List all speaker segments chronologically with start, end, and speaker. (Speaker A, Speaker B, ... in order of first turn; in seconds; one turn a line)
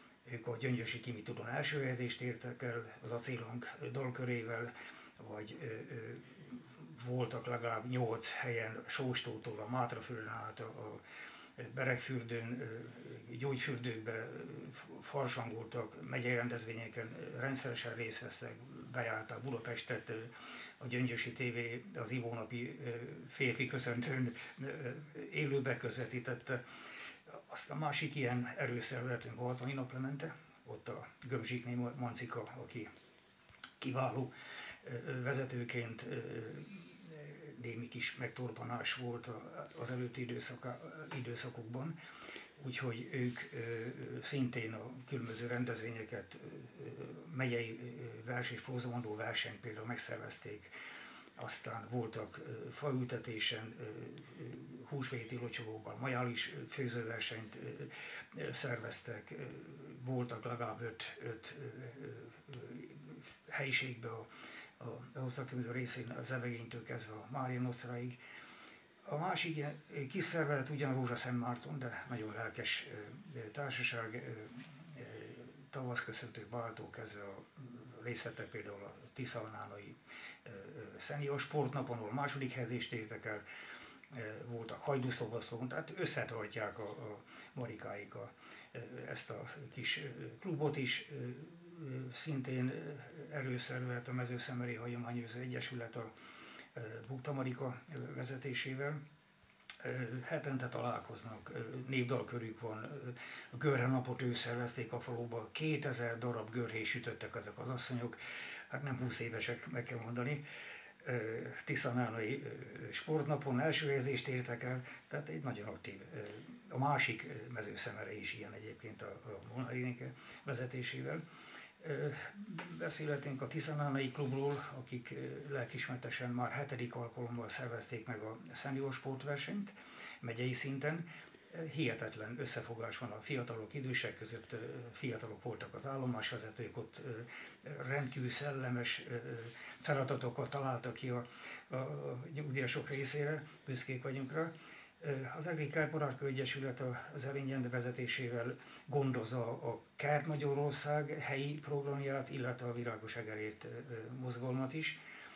Speaker A: 0.3-11.0
Speaker A: 11.6-26.6
Speaker A: 27.5-32.9
Speaker A: 33.8-42.0
Speaker A: 42.6-50.7
Speaker A: 51.4-64.3
Speaker A: 64.8-68.2
Speaker A: 69.1-83.5
Speaker A: 84.1-96.1
Speaker A: 96.8-99.0
Speaker A: 99.8-108.2
Speaker A: 108.7-110.4
Speaker A: 111.0-121.2
Speaker A: 121.8-155.0